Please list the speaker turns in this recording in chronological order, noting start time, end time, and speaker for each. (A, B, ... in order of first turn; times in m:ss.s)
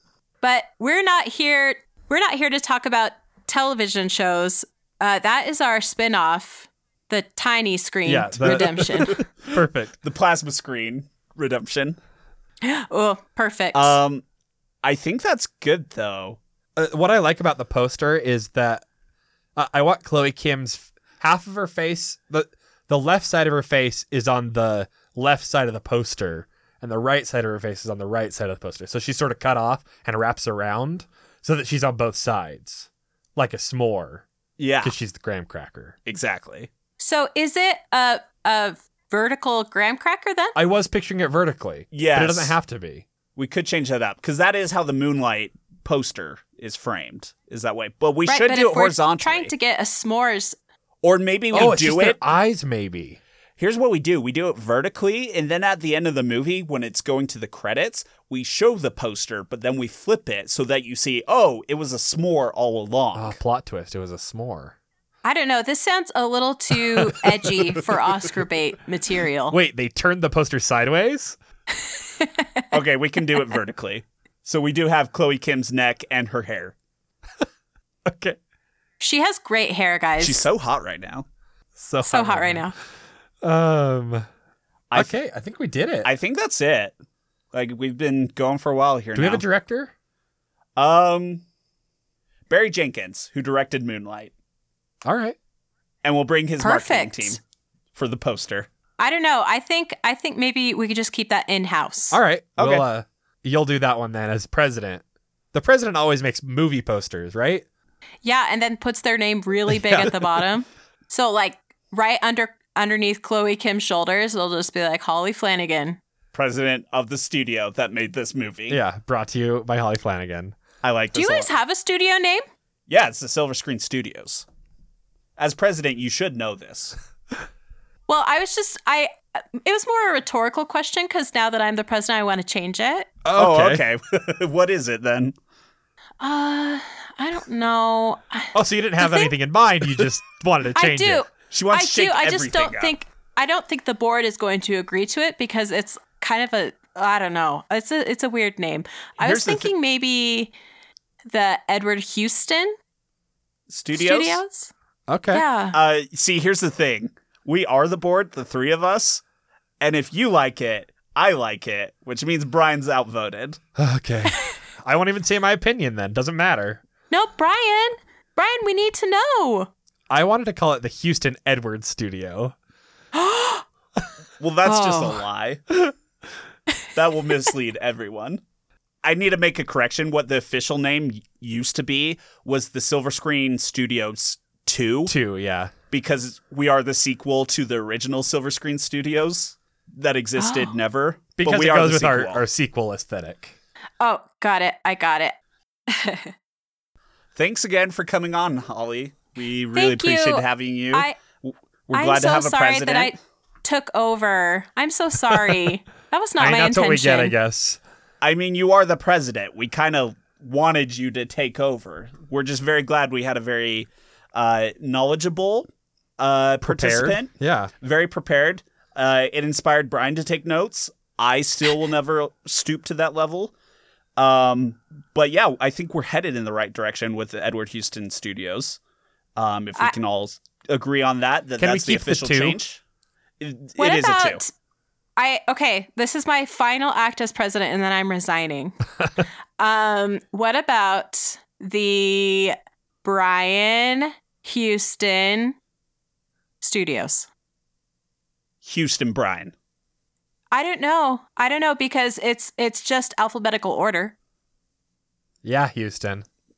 0:00.4-0:09.2 A
0:08.0-0:09.9 B
0:10.0-0:12.0 C
0:12.6-0:14.0 A
0:13.7-0:14.2 C
0:14.8-0:16.4 C
0:16.8-0:18.8 B
0:19.6-0:34.2 B
0:34.6-0:34.9 C
0:34.8-0:35.9 B
0:36.0-0:36.7 C
0:37.0-0:40.6 A
0:40.5-0:43.0 B
0:41.9-0:42.6 C
0:43.4-0:49.5 C
0:48.3-0:50.6 A
0:51.0-0:52.2 C
0:51.5-0:53.2 B
0:53.6-1:03.4 C
1:03.1-1:04.7 B
1:05.2-1:09.6 A
1:09.5-1:11.4 B
1:12.2-1:12.6 A
1:12.7-1:16.7 C
1:18.0-1:18.4 B
1:19.0-1:20.5 A
1:20.2-1:21.2 C
1:21.8-1:22.7 B
1:22.0-1:22.7 A
1:23.4-1:24.2 B
1:24.9-1:26.1 B
1:26.0-1:27.0 C
1:27.5-1:29.4 C
1:29.1-1:29.9 B
1:30.8-1:31.4 C
1:32.5-1:34.3 C
1:35.0-1:35.4 B
1:36.0-1:37.4 C
1:36.6-1:37.4 A
1:37.9-1:38.7 C
1:39.0-1:42.2 A
1:42.1-1:47.6 B
1:42.6-1:42.8 C
1:48.2-1:56.0 A
1:49.7-1:50.1 B
1:56.3-1:58.8 C
1:58.7-2:00.6 B
2:00.8-2:01.5 C
2:01.1-2:02.4 A
2:02.9-2:04.4 C
2:05.4-2:07.0 C
2:08.1-2:13.1 A
2:13.2-2:13.8 B
2:13.3-2:15.3 C
2:16.2-2:19.3 A
2:18.5-2:21.2 B
2:20.7-2:30.5 A
2:21.5-2:22.9 C
2:29.2-2:29.7 C
2:31.3-2:32.8 A
2:33.7-2:34.4 C
2:33.9-2:34.7 A
2:35.1-2:35.4 B
2:35.3-2:35.8 A
2:35.7-2:39.2 C
2:39.8-2:43.6 C
2:43.8-2:46.8 B
2:47.1-2:49.7 A
2:50.1-2:52.5 B
2:53.1-2:53.6 A
2:54.4-2:55.8 C
2:54.6-2:55.2 A
2:56.9-2:58.4 C
2:59.0-3:05.1 C
3:05.1-3:05.7 B
3:05.9-3:12.4 C
3:10.4-3:10.7 A
3:11.4-3:13.5 B
3:14.0-3:15.4 A
3:15.9-3:16.3 A
3:17.4-3:23.1 C
3:19.7-3:21.2 A
3:21.9-3:27.3 A
3:26.4-3:27.8 B
3:28.2-3:35.7 C
3:36.2-3:43.5 C
3:36.6-3:37.7 B
3:44.2-3:48.8 C
3:49.4-3:52.8 C
3:51.6-3:52.6 B
3:53.4-3:54.4 C
3:53.8-3:54.5 A
3:55.2-3:58.8 A
3:59.6-4:05.6 A
4:06.6-4:07.3 A
4:08.6-4:09.5 C
4:10.5-4:14.1 A
4:15.4-4:16.2 B